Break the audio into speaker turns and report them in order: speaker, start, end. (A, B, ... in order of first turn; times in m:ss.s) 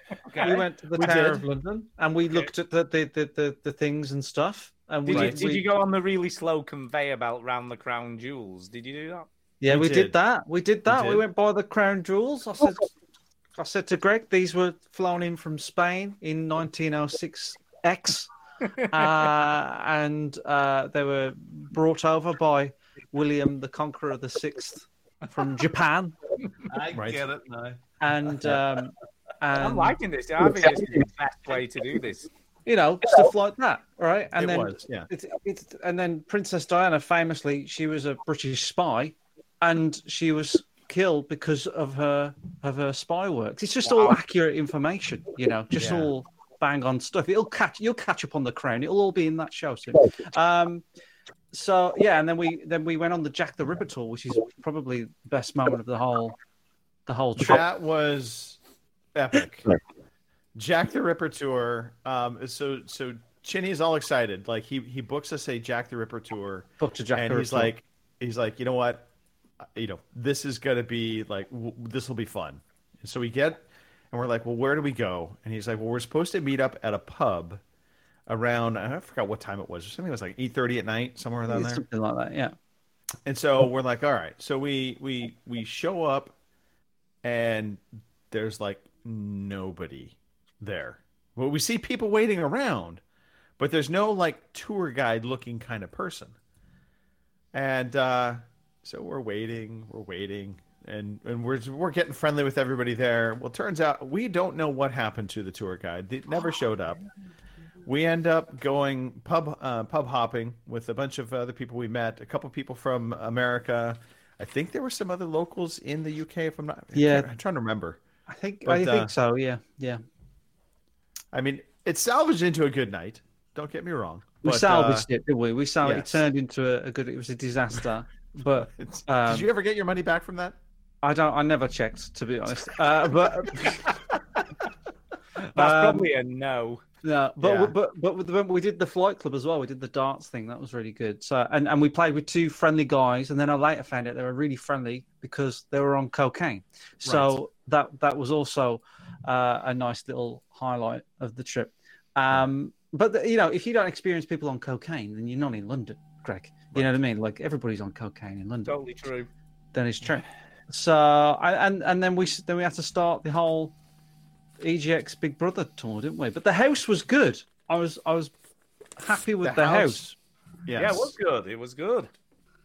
0:00.3-0:01.4 A
0:00.4-0:05.7 B
0:01.0-0:01.3 C
0:05.0-0:09.3 D
0:05.1-0:05.4 C
0:09.6-0:12.9 B
0:09.6-0:10.2 C
0:10.8-0:11.2 C
0:13.6-0:18.3 B
0:18.9-0:26.1 B
0:26.7-0:27.8 A
0:26.9-0:27.2 C
0:28.0-0:30.0 B
0:29.6-0:32.3 D
0:32.6-0:50.8 B
0:34.4-0:35.1 C
0:45.8-0:46.1 C
0:51.5-0:56.4 B
0:57.1-0:57.6 B
0:57.4-0:58.6 C
0:59.1-0:59.7 C
1:00.5-1:09.1 C
1:06.8-1:07.7 B
1:09.7-1:17.6 C
1:18.3-1:21.8 C
1:21.5-1:22.5 B
1:23.2-1:26.3 C
1:27.2-1:33.0 C
1:33.6-1:36.4 C
1:37.5-1:47.0 C
1:47.8-1:58.0 C
1:56.9-1:57.3 B
1:58.3-2:00.0 B
1:58.6-1:59.1 C
2:01.3-2:05.1 C
2:04.4-2:09.5 B
2:05.8-2:06.2 C
2:08.5-2:10.6 C
2:11.0-2:13.8 B
2:15.5-2:16.8 D
2:15.5-2:16.1 B
2:17.0-2:38.8 B
2:17.4-2:17.7 C
2:27.0-2:27.4 C
2:38.7-2:39.3 D
2:39.7-2:43.7 B
2:44.6-2:48.3 B
2:49.0-2:50.1 B
2:49.4-2:50.1 C
2:50.6-2:51.1 C
2:50.7-2:52.1 D